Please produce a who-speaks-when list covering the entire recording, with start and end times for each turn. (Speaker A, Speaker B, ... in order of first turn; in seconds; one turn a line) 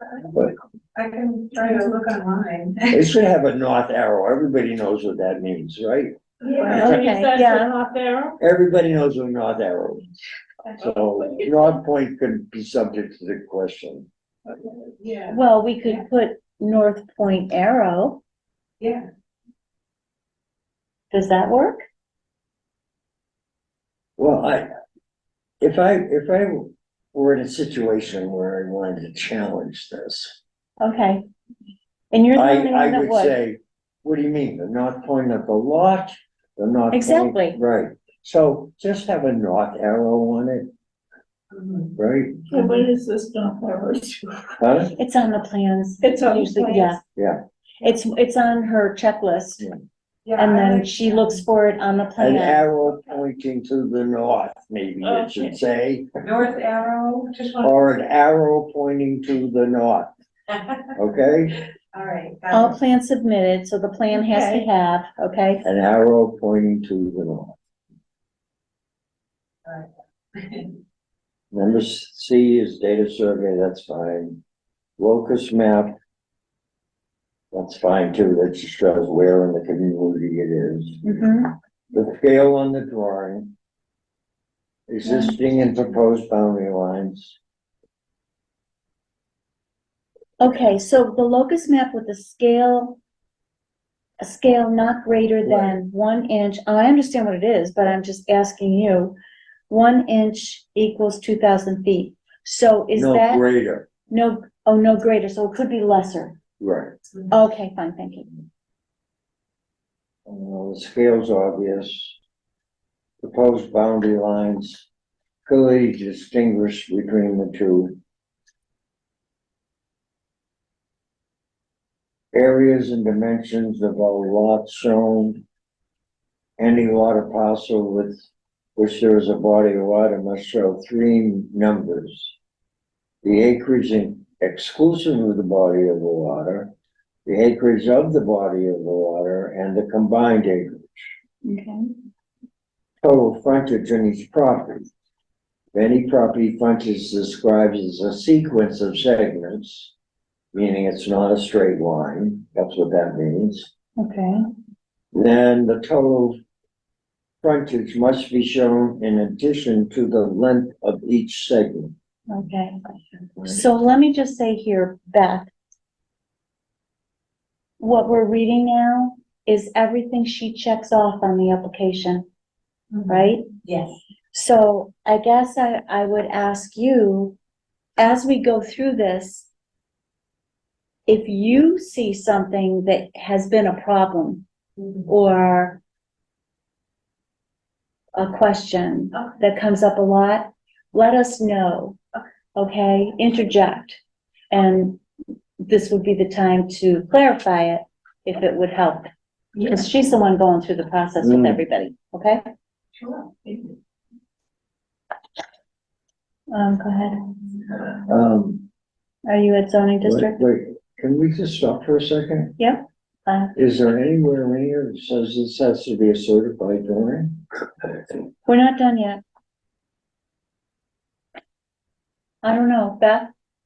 Speaker A: 0.9-3.0
Speaker B: 2.9-6.2
Speaker C: 6.5-8.4
Speaker D: 6.7-7.7
Speaker B: 8.4-10.1
Speaker B: 10.8-14.1
Speaker A: 15.0-16.0
Speaker D: 15.3-18.2
Speaker D: 21.1-21.8
Speaker B: 24.2-24.7
Speaker B: 25.6-30.4
Speaker D: 30.8-31.2
Speaker D: 32.1-33.3
Speaker B: 32.4-40.7
Speaker D: 36.9-37.6
Speaker A: 41.5-42.0
Speaker B: 42.0-42.5
Speaker C: 42.5-44.6
Speaker B: 44.6-45.0
Speaker D: 45.0-47.0
Speaker C: 46.0-47.0
Speaker B: 47.2-47.4
Speaker D: 47.8-49.7
Speaker A: 50.3-51.4
Speaker D: 50.4-52.6
Speaker B: 52.2-56.1
Speaker C: 55.0-55.6
Speaker A: 56.2-57.7
Speaker B: 57.6-60.1
Speaker B: 61.0-61.6
Speaker A: 61.9-62.8
Speaker D: 62.5-65.7
Speaker C: 64.3-64.6
Speaker B: 65.6-67.6
Speaker A: 69.7-70.7
Speaker B: 71.5-74.4
Speaker B: 75.0-76.0
Speaker B: 77.5-81.0
Speaker D: 81.0-81.5
Speaker B: 81.9-83.5
Speaker B: 84.9-87.4
Speaker D: 85.0-85.4
Speaker D: 90.4-93.0
Speaker D: 94.2-99.2
Speaker B: 95.5-95.8
Speaker D: 99.7-103.4
Speaker B: 103.0-103.9
Speaker D: 104.1-106.4
Speaker B: 106.6-107.0
Speaker D: 107.3-108.3
Speaker B: 110.3-112.2
Speaker B: 113.2-114.9
Speaker B: 115.5-118.0
Speaker B: 122.3-125.4
Speaker B: 126.6-128.2
Speaker B: 128.8-132.3
Speaker B: 133.2-136.7
Speaker B: 137.3-141.0
Speaker D: 141.4-141.9
Speaker B: 143.0-144.9
Speaker B: 145.8-149.9
Speaker B: 150.5-153.7
Speaker D: 154.0-154.4
Speaker B: 155.1-156.3
Speaker B: 157.4-161.9
Speaker D: 162.3-162.8
Speaker D: 163.4-165.5
Speaker D: 167.8-172.3
Speaker A: 172.9-174.0
Speaker D: 173.1-173.5
Speaker D: 174.3-177.4
Speaker D: 178.0-179.5
Speaker D: 181.1-184.4
Speaker D: 185.1-185.8
Speaker D: 188.2-192.0
Speaker D: 192.6-194.0
Speaker D: 194.5-195.0
Speaker D: 195.6-199.1
Speaker D: 199.6-202.4
Speaker B: 201.2-201.6
Speaker A: 203.0-203.7
Speaker D: 206.5-207.2
Speaker B: 208.1-208.7
Speaker D: 209.3-210.4
Speaker B: 210.0-212.6
Speaker D: 212.6-213.6
Speaker B: 213.6-217.4
Speaker D: 218.5-219.2
Speaker D: 222.4-223.3